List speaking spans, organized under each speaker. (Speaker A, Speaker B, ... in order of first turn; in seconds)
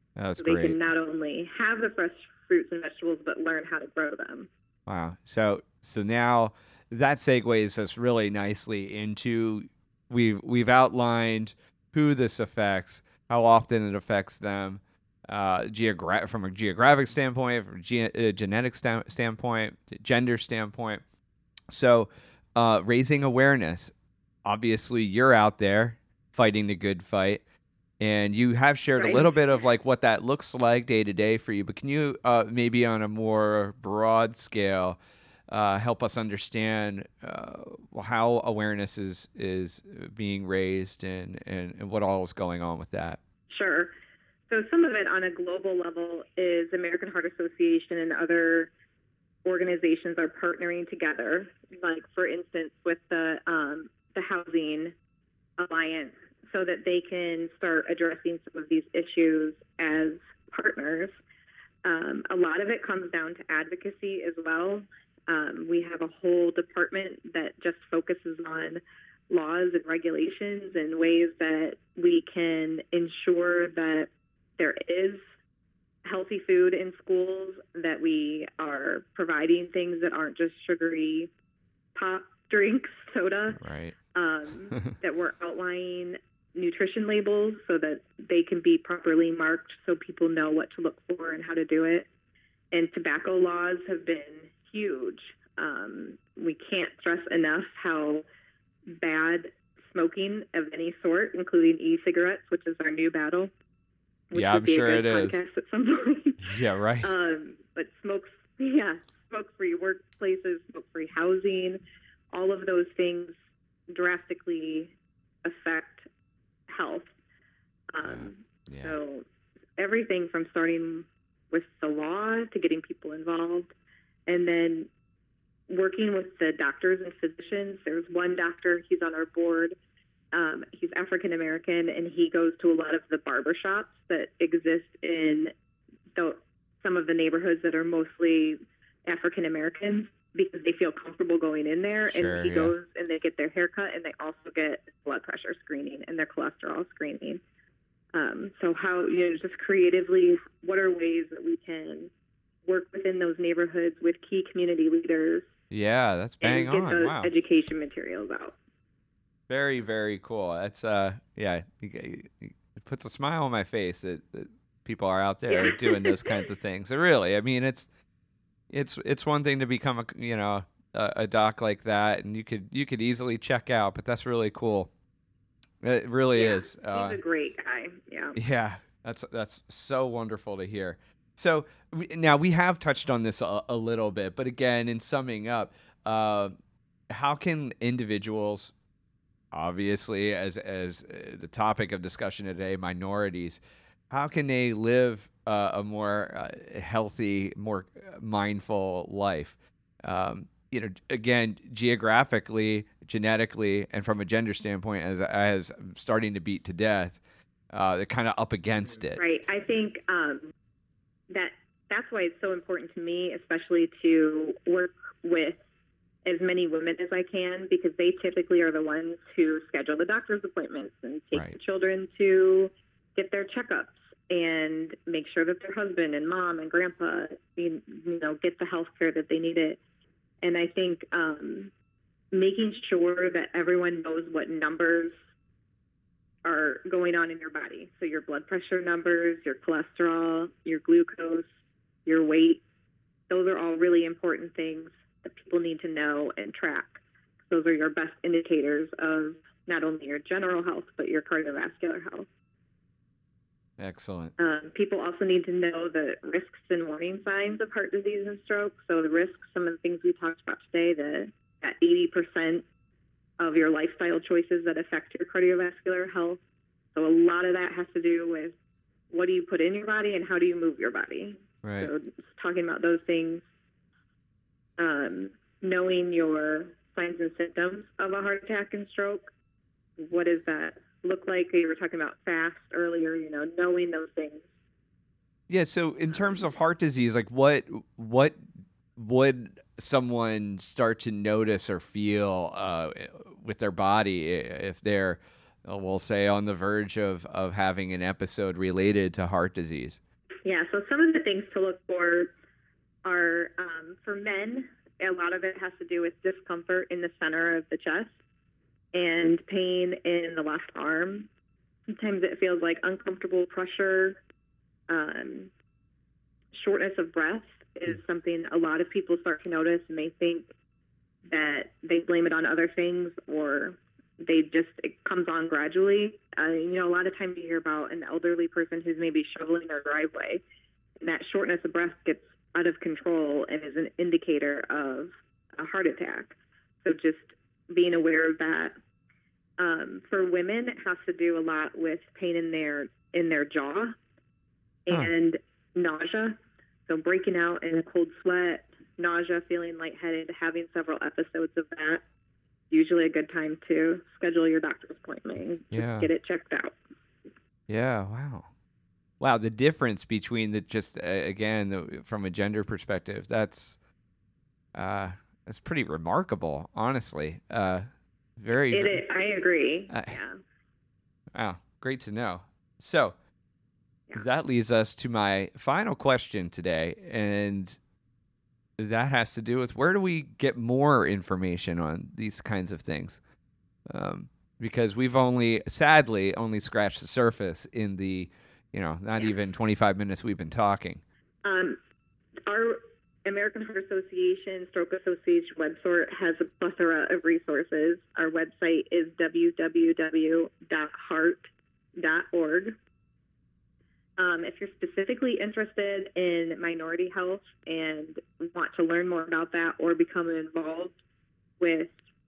Speaker A: 0.1-0.8, 4.9-21.0, 21.7-23.9, 24.4-27.4, 28.0-35.0, 35.5-43.2, 83.6-84.0, 104.3-105.4, 106.4-107.1, 118.0-119.0, 142.1-142.7, 155.7-157.3, 159.5-167.9, 168.7-174.9, 175.8-177.2, 178.3-186.5, 187.1-188.7, 189.5-207.2, 207.7-209.2, 253.8-254.3, 271.6-271.9, 285.5-288.4, 289.0-300.0, 355.7-356.1, 357.7-358.5, 359.2-363.8, 364.8-367.9, 368.4-369.0, 369.9-370.2, 371.3-373.1, 374.1-377.8, 378.8-383.2, 383.9-391.0
Speaker B: 0.4-4.5, 29.0-29.4, 43.5-43.9, 44.5-48.7, 49.5-55.0, 55.6-61.2, 61.8-75.2, 76.0-81.3, 82.0-83.6, 84.1-92.1, 92.7-98.2, 98.9-103.5, 104.3-113.3, 113.9-116.1, 116.7-117.1, 117.9-123.7, 124.2-124.9, 125.7-129.8, 130.3-135.5, 136.2-147.4, 148.1-152.1, 152.7-155.5, 156.4-158.6, 165.5-166.3, 176.3-178.4, 209.2-210.5, 211.3-215.6, 216.2-229.8, 230.4-231.7, 232.3-235.1, 236.4-241.5, 242.1-242.6, 243.3-252.3, 254.4-262.6, 263.4-266.4, 266.9-268.6, 269.1-273.5, 274.8-279.3, 280.0-284.5, 300.4-302.3, 303.0-308.1, 308.9-311.3, 311.9-314.2, 314.9-315.5, 316.5-320.5, 321.2-330.4, 331.0-338.8, 339.6-343.9, 344.9-352.0, 352.7-356.8, 368.7-370.4, 391.4-391.8, 392.5-402.8, 404.2-411.0, 411.6-412.0